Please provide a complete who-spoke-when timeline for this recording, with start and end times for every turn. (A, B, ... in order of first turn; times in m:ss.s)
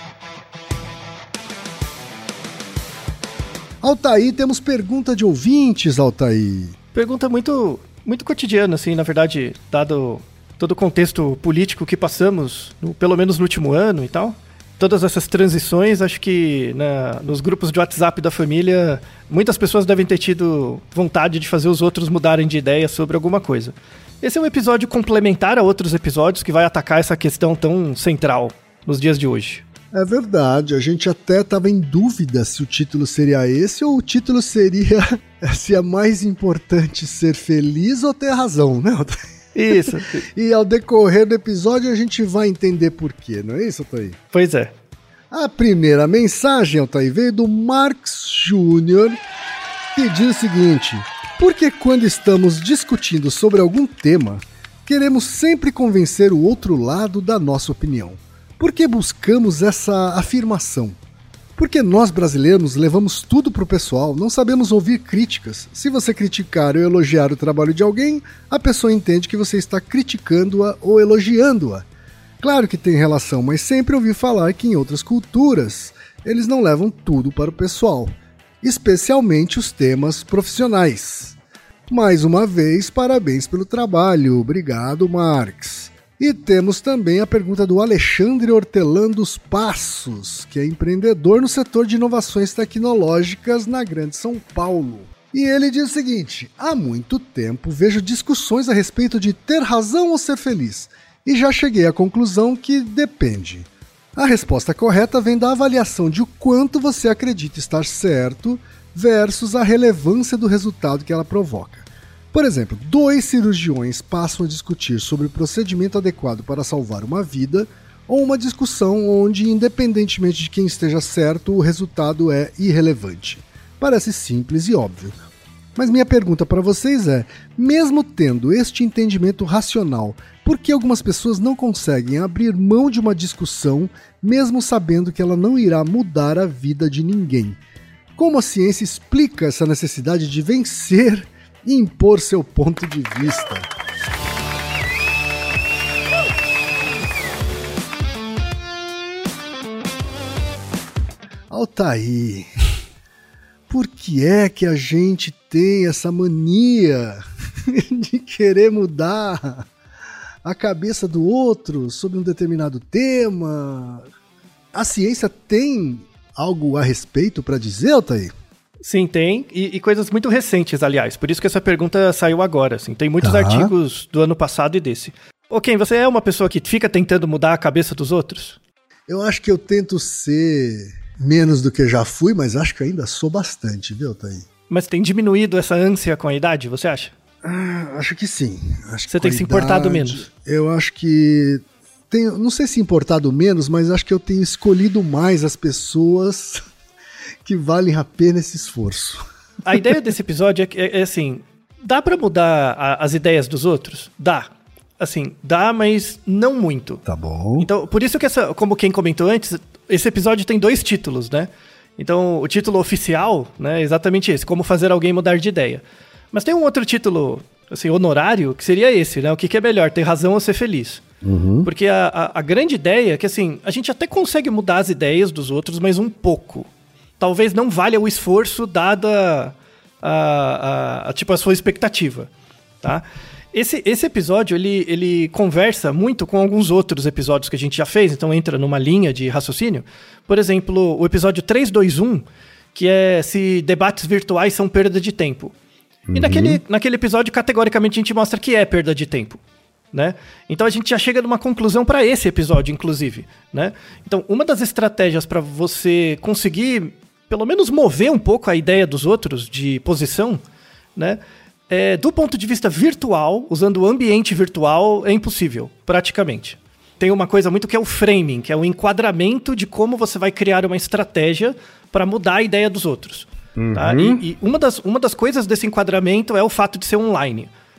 0:03.8-0:06.8 A
0:06.9-0:29.6 B
0:29.9-0:39.2 A
0:39.5-0:40.2 B
0:39.7-0:44.2 A
0:44.3-0:44.7 B
0:45.3-0:49.2 A
0:49.9-1:01.0 A
1:01.6-1:11.8 A
1:12.4-1:21.4 A
1:21.9-2:05.2 A
2:05.8-2:17.6 A
2:18.2-2:23.7 A
2:31.5-2:32.5 A
2:33.7-2:39.7 A
2:40.4-2:44.1 A
2:44.7-2:48.3 A
2:48.8-2:58.6 B
2:53.2-2:53.7 A
2:59.1-3:04.4 A
3:04.7-3:07.1 B
3:07.4-3:16.6 A
3:09.1-3:10.2 B
3:17.4-3:19.2 A
3:19.6-3:24.5 B
3:25.0-3:27.0 B
3:27.0-3:27.7 A
3:27.6-3:41.0 B
3:41.2-3:41.7 A
3:41.6-3:52.3 B
3:52.8-4:05.5 B
4:06.1-4:06.6 A
4:06.1-4:09.4 B
4:09.9-4:20.4 B
4:21.0-4:37.5 B
4:33.6-4:34.2 A